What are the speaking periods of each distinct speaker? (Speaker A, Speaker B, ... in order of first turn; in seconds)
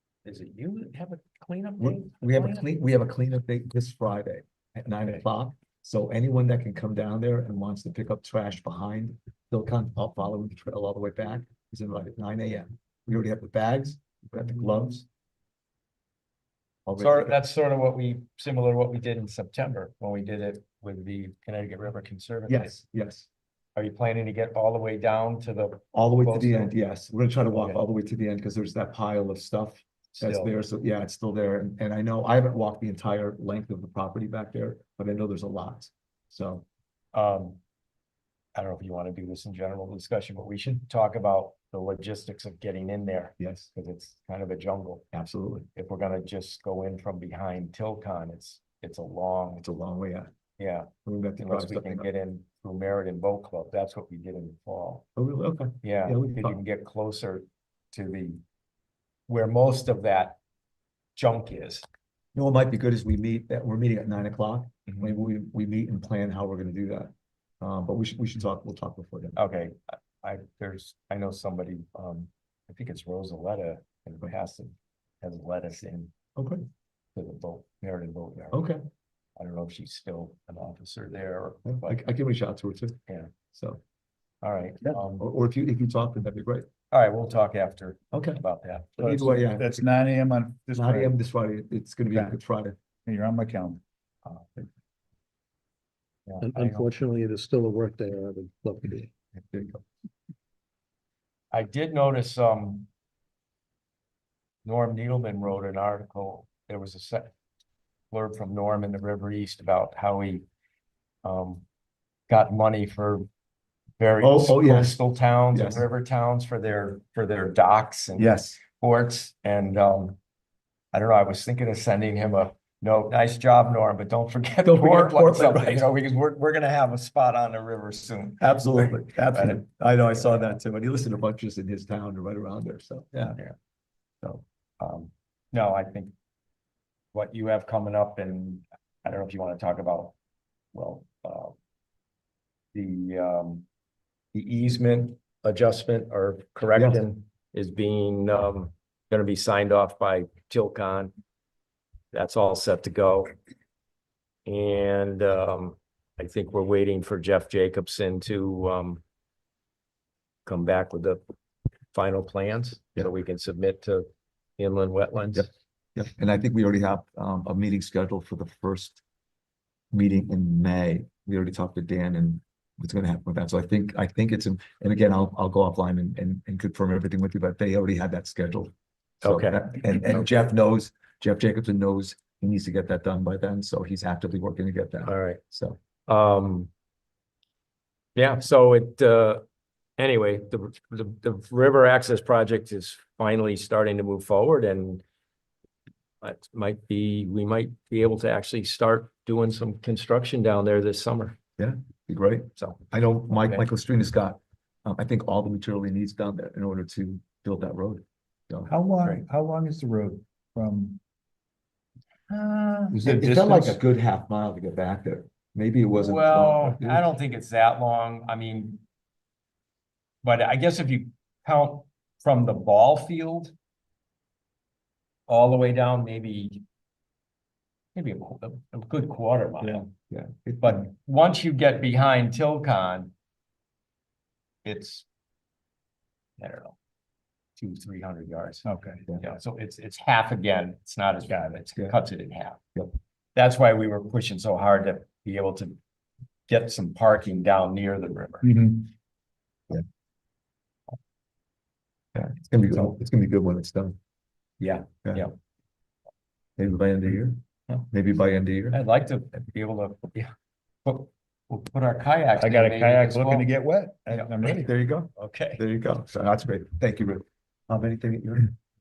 Speaker A: 0.2-2.7, 17.0-22.7, 23.8-26.7, 27.5-27.8, 30.1-30.5, 37.1-37.6, 38.5-45.0, 45.8-49.6, 50.6-55.0, 55.8-58.4, 59.3-60.4, 61.2-61.9, 69.3-76.1, 77.1-78.7, 79.4-82.0, 83.1-83.3, 84.4-85.2, 86.9-89.0, 94.2-94.6, 96.3-96.9, 101.5-102.9, 104.6-107.3, 108.1-110.4, 111.2-111.6, 112.3-113.2, 114.0-120.2, 120.9-129.6, 134.8-136.1, 137.1-140.2, 140.7-141.6, 142.7-143.7, 144.3-151.1, 152.1-153.3, 154.5-159.0, 160.5-161.2, 161.9-164.1, 164.6-165.5, 179.2-179.8, 185.1-185.4, 186.1-186.7, 188.2-189.4, 190.0-195.0, 196.2-201.4, 202.6-203.7, 215.9-218.8, 220.2-223.5, 225.3-226.6, 227.9-229.9, 230.6-233.1, 234.6-235.1, 236.4-236.8, 237.6-242.6, 243.3-245.8, 246.5-248.6, 254.6-255.3, 258.7-260.3, 260.9-263.5, 264.1-265.6
Speaker B: 1.8-15.1, 16.9-17.4, 22.5-23.3, 25.9-36.6, 43.4-43.7, 45.1-45.7, 49.6-50.3, 51.0-52.1, 55.2-56.6, 62.4-69.4, 76.3-76.6, 78.5-78.8, 81.6-83.0, 83.5-83.8, 85.2-86.7, 88.1-88.4, 89.0-89.8, 90.7-92.8, 99.4-99.8, 114.2-115.0, 115.5-115.8, 118.2-118.6, 124.6-125.9, 128.4-133.4, 146.8-147.0, 166.0-169.0, 169.9-178.7, 179.2-185.8, 201.6-208.7, 212.9-217.1, 229.6-230.9, 252.1-254.0, 256.6-258.8, 264.3-268.5
Speaker C: 89.0-91.1, 92.1-92.4, 93.1-93.8, 208.7-211.0, 212.3-213.8, 238.7-239.1, 248.4-248.9, 262.4-264.7
Speaker D: 96.4-99.1